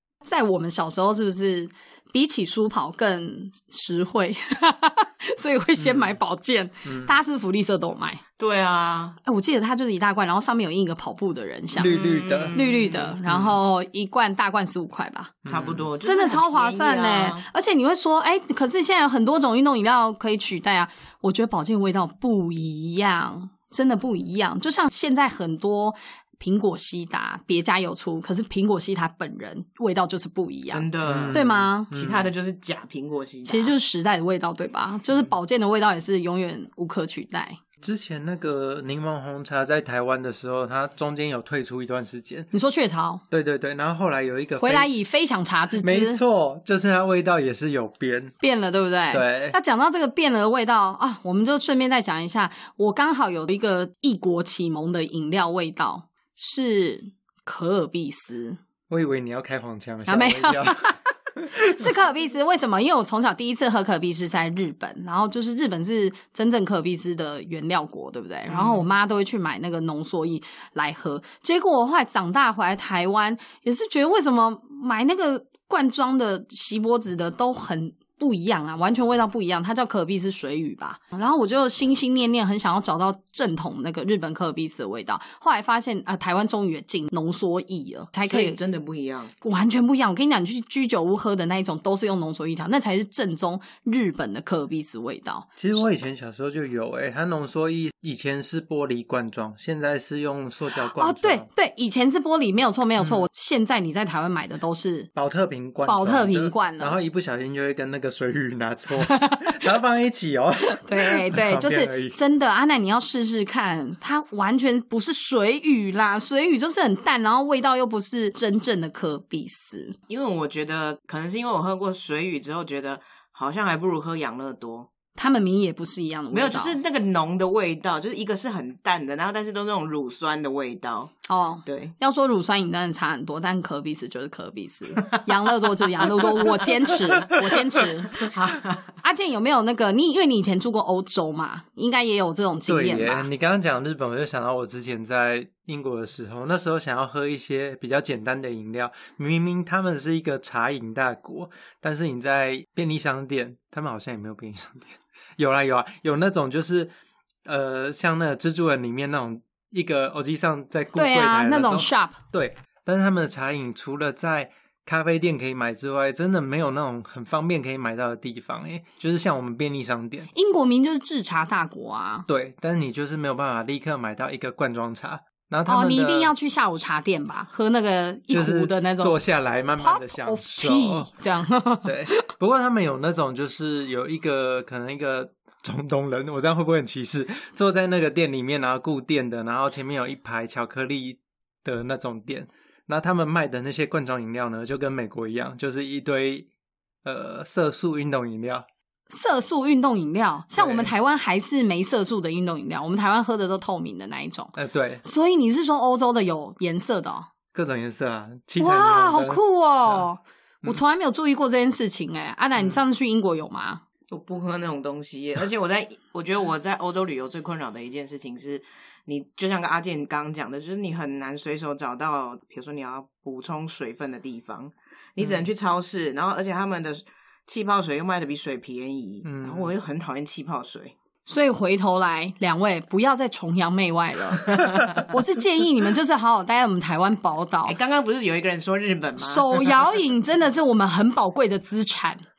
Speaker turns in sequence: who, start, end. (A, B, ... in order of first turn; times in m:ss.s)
0:00.2-0:08.2 A
0:05.8-0:06.2 B
0:06.8-0:07.1 B
0:08.4-0:09.2 C
0:09.2-0:12.0 A
0:11.7-0:12.6 B
0:11.8-0:13.2 C
0:12.5-0:15.4 A
0:15.4-0:15.9 B
0:15.4-0:17.4 C
0:16.0-0:31.9 A
0:30.7-0:33.7 C
0:31.0-0:32.3 B
0:33.4-0:37.6 A
0:37.8-0:42.5 B
0:42.5-0:43.2 A
0:43.3-0:44.9 B
0:44.6-0:46.2 A
0:45.8-0:48.3 B
0:48.4-0:58.6 A
0:49.1-0:49.6 B
0:58.9-1:00.8 B
1:00.1-1:01.0 A
1:01.6-1:28.6 A
1:08.5-1:08.8 C
1:28.2-1:29.3 C
1:29.4-1:35.6 A
1:35.6-1:41.5 B
1:40.8-1:45.1 A
1:45.2-1:52.2 B
1:45.8-1:47.0 A
1:49.0-1:49.5 A
1:50.6-2:00.0 A
2:00.1-2:04.9 C
2:05.2-2:06.8 A
2:06.3-2:11.1 C
2:11.3-2:18.3 A
2:11.6-2:11.9 C
2:18.2-2:18.9 C
2:19.0-2:23.3 A
2:22.7-2:36.9 B
2:37.4-2:50.3 B
2:40.9-2:42.2 A
2:50.3-2:52.3 A
2:52.3-2:56.3 B
2:55.7-2:59.2 A
2:58.3-3:01.1 B
2:59.8-3:02.2 A
3:01.8-3:16.5 B
3:17.0-3:18.6 B
3:19.1-3:24.5 A
3:20.5-3:20.9 B
3:24.5-3:25.0 B
3:25.0-3:27.3 A
3:27.5-3:30.0 B
3:28.6-3:33.8 A
3:34.1-3:50.9 C
3:49.2-3:49.7 B
3:51.3-3:57.8 A
3:54.5-3:54.9 C
3:57.6-3:59.6 C
3:59.2-4:02.2 A